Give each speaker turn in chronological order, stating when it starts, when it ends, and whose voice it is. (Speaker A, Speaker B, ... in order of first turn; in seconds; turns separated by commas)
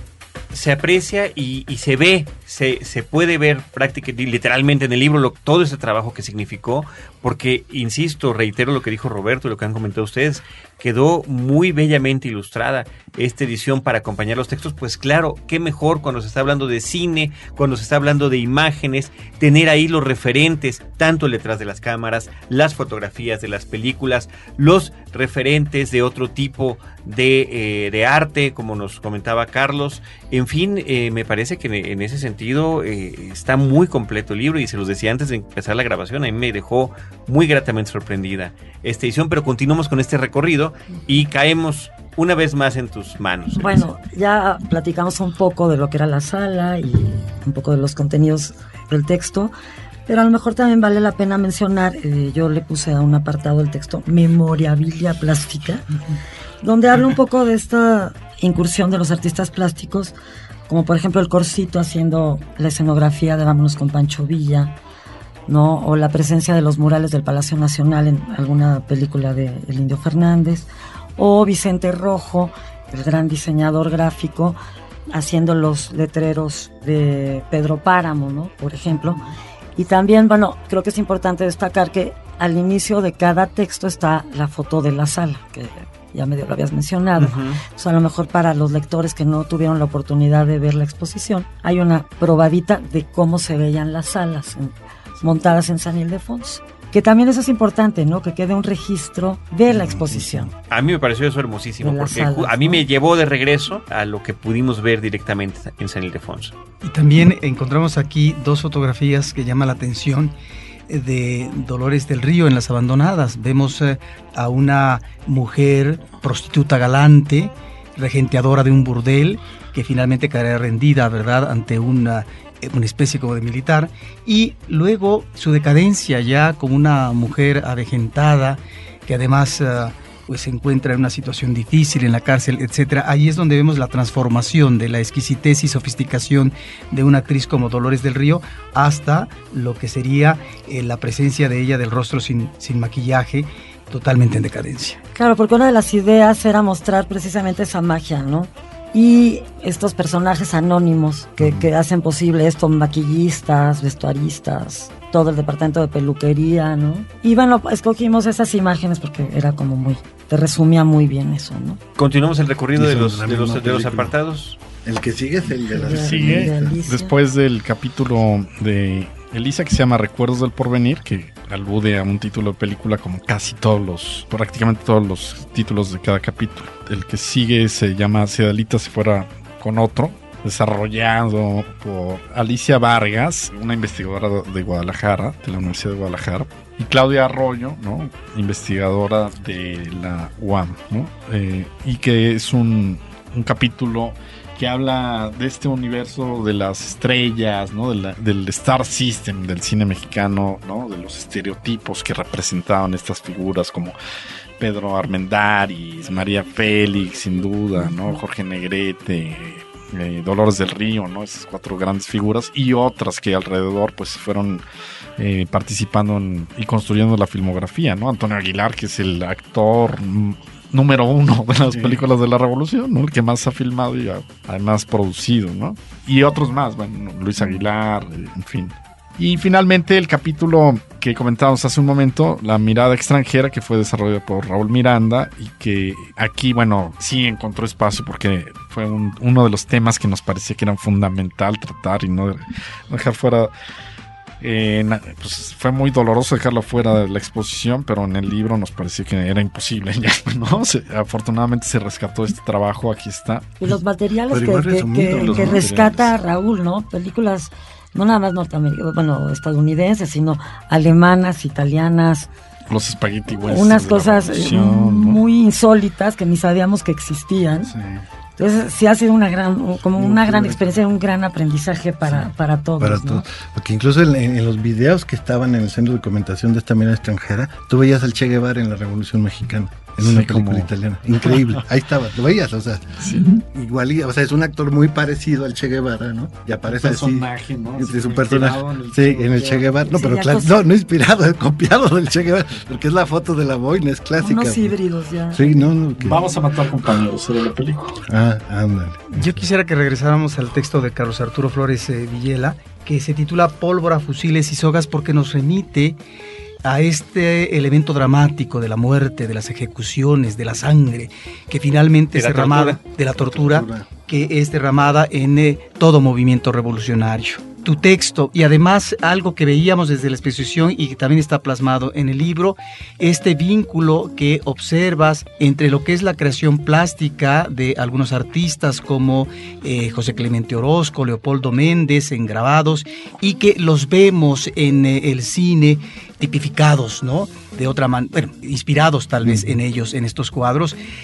Speaker A: 0.5-43.8, Speaker B: 43.5-49.5, Speaker B: 50.1-55.9, Speaker B: 56.6-60.1, Speaker B: 60.7-64.7, Speaker B: 65.5-74.6, Speaker B: 75.1-79.2, Speaker B: 79.8-100.5, Speaker A: 87.2-87.6, Speaker C: 99.7-100.5, Speaker A: 100.7-106.5, Speaker B: 101.8-102.8, Speaker D: 106.8-110.3, Speaker D: 110.9-145.0, Speaker B: 145.1-161.8, Speaker C: 151.4-151.7, Speaker A: 162.0-164.6, Speaker C: 162.7-164.2, Speaker C: 164.8-166.8, Speaker B: 165.8-167.1, Speaker E: 165.9-203.9, Speaker E: 204.6-214.6, Speaker B: 207.8-208.2, Speaker E: 215.2-243.5, Speaker C: 221.7-222.0, Speaker E: 244.4-253.5, Speaker B: 253.6-262.3, Speaker C: 254.3-256.0, Speaker E: 255.1-256.1, Speaker E: 262.7-265.2, Speaker B: 263.3-267.7, Speaker C: 267.6-268.0, Speaker B: 268.4-273.2, Speaker C: 269.9-270.8, Speaker C: 272.1-294.8, Speaker E: 280.0-280.7, Speaker E: 281.2-281.6, Speaker E: 283.0-283.4, Speaker E: 286.6-289.3, Speaker B: 289.3-290.6, Speaker B: 294.2-295.7, Speaker C: 295.3-296.2, Speaker E: 296.0-298.0, Speaker C: 298.0-299.4, Speaker D: 299.1-306.0, Speaker D: 306.6-340.8, Speaker A: 312.1-312.8, Speaker C: 313.1-313.9, Speaker C: 339.2-339.6